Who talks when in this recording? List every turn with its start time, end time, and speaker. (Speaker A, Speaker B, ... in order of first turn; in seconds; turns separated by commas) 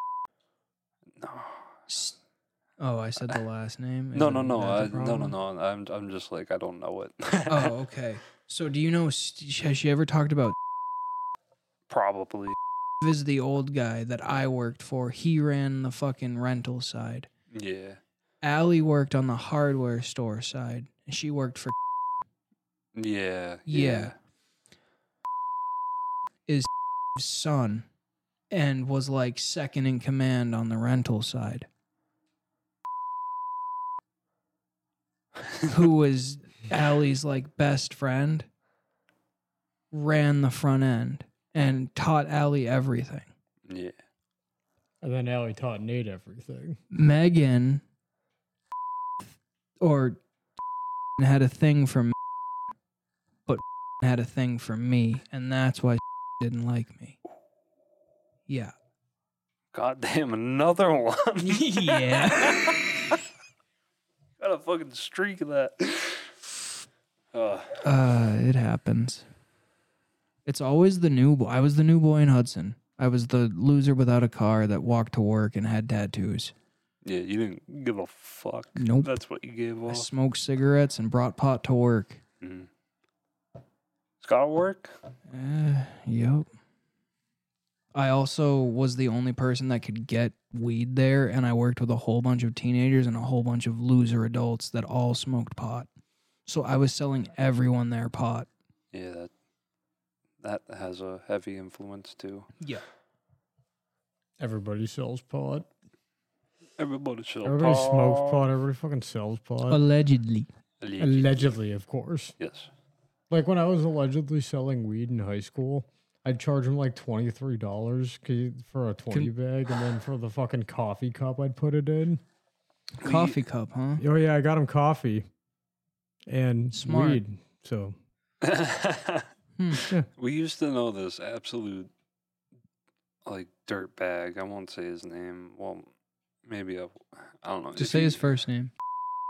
Speaker A: 1.2-1.9, Speaker B: 1.9-2.2, Speaker B: 2.8-5.3, Speaker A: 4.1-7.7, Speaker B: 7.5-10.5, Speaker A: 11.9-12.6, Speaker B: 13.0-17.3, Speaker A: 17.5-18.0, Speaker B: 18.4-21.8, Speaker A: 22.9-24.1, Speaker B: 23.7-24.1, Speaker B: 26.5-27.9, Speaker B: 28.5-31.7, Speaker B: 35.6-38.5, Speaker B: 39.9-43.3, Speaker A: 43.7-44.0, Speaker C: 45.0-46.8, Speaker B: 46.9-47.8, Speaker B: 49.8-50.2, Speaker B: 51.2-52.1, Speaker B: 53.5-57.2, Speaker B: 58.5-58.7, Speaker A: 59.7-63.1, Speaker B: 61.4-62.8, Speaker A: 64.4-66.3, Speaker A: 67.3-67.8, Speaker B: 67.8-69.2, Speaker B: 70.4-76.5, Speaker A: 77.0-80.1, Speaker B: 78.8-79.1, Speaker B: 79.9-82.2, Speaker A: 82.4-82.7, Speaker A: 84.2-84.9, Speaker B: 85.3-86.5, Speaker B: 87.9-95.9, Speaker B: 96.5-98.5, Speaker A: 98.9-99.3, Speaker A: 100.4-102.5, Speaker C: 104.4-105.7, Speaker A: 106.8-108.5, Speaker C: 107.4-109.8, Speaker B: 109.7-110.5, Speaker A: 110.8-111.5, Speaker C: 111.0-112.3, Speaker A: 112.4-112.7, Speaker C: 113.3-122.2, Speaker B: 123.0-124.0, Speaker A: 123.0-123.4, Speaker C: 124.0-125.2, Speaker C: 126.3-128.0, Speaker B: 126.7-127.2, Speaker A: 128.4-131.9, Speaker B: 129.6-129.8, Speaker A: 133.2-135.9, Speaker A: 136.4-138.2, Speaker B: 137.8-138.7